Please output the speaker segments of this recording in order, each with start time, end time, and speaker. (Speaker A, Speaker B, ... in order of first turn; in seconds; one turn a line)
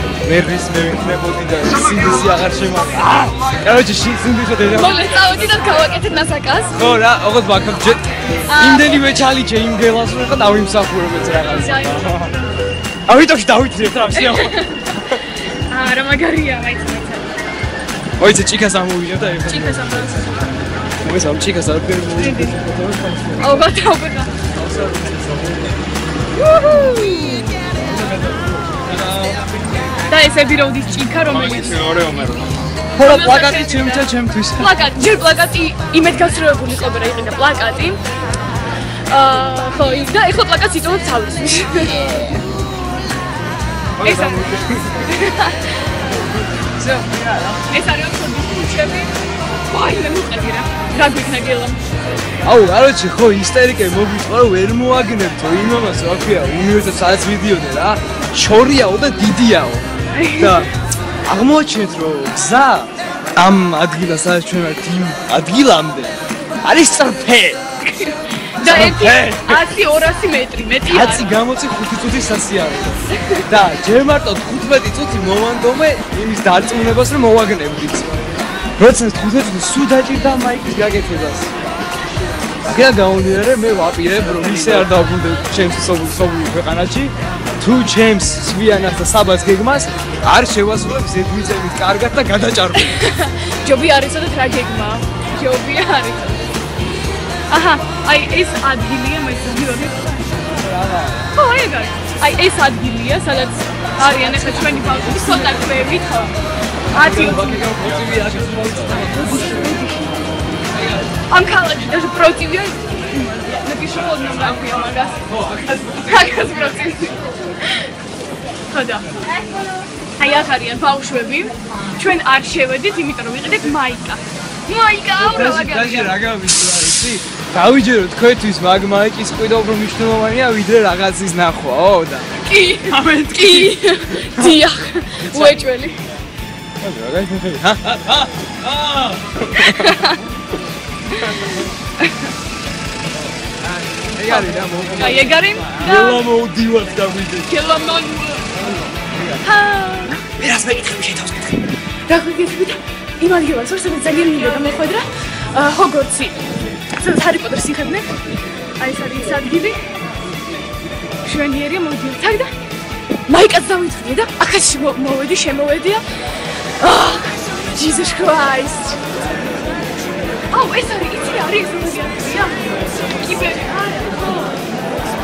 Speaker A: 0.2-5.3
Speaker B: 4.7-6.8
Speaker A: 6.7-12.4
Speaker B: 8.5-9.0
Speaker B: 11.5-12.4
Speaker A: 13.1-15.2
Speaker B: 14.1-15.0
Speaker B: 15.7-17.3
Speaker A: 18.2-20.4
Speaker B: 19.5-20.3
Speaker A: 21.0-23.5
Speaker B: 22.2-22.6
Speaker B: 23.4-24.3
Speaker A: 24.6-25.5
Speaker B: 26.4-27.6
Speaker A: 28.3-29.4
Speaker B: 30.1-32.1
Speaker A: 33.0-34.7
Speaker B: 33.0-38.0
Speaker B: 39.1-42.2
Speaker A: 44.0-45.0
Speaker B: 44.0-45.8
Speaker A: 46.8-47.6
Speaker B: 47.7-49.1
Speaker B: 49.6-51.8
Speaker A: 52.4-59.8
Speaker B: 60.1-60.7
Speaker A: 60.4-60.7
Speaker A: 61.2-67.6
Speaker B: 67.8-71.3
Speaker A: 68.6-69.6
Speaker A: 70.8-81.5
Speaker B: 73.1-73.4
Speaker A: 82.6-93.0
Speaker B: 92.8-96.5
Speaker B: 97.5-100.3
Speaker A: 100.4-101.3
Speaker B: 101.3-106.3
Speaker B: 106.9-107.7
Speaker A: 106.9-109.6
Speaker B: 109.0-110.2
Speaker B: 111.3-115.2
Speaker A: 115.4-116.0
Speaker B: 115.9-117.2
Speaker B: 118.7-119.2
Speaker B: 120.2-126.2
Speaker A: 125.2-132.3
Speaker B: 132.3-136.0
Speaker A: 132.8-134.6
Speaker A: 135.2-135.6
Speaker A: 136.8-140.2
Speaker B: 139.6-140.2
Speaker A: 141.2-141.6
Speaker A: 143.6-147.5
Speaker B: 144.2-146.2
Speaker B: 147.5-148.5
Speaker B: 149.4-150.2
Speaker A: 150.2-151.6
Speaker B: 152.1-156.4
Speaker B: 156.9-158.1
Speaker B: 158.8-159.8
Speaker B: 161.2-162.5
Speaker B: 163.3-166.0
Speaker B: 166.8-169.0
Speaker B: 170.5-174.7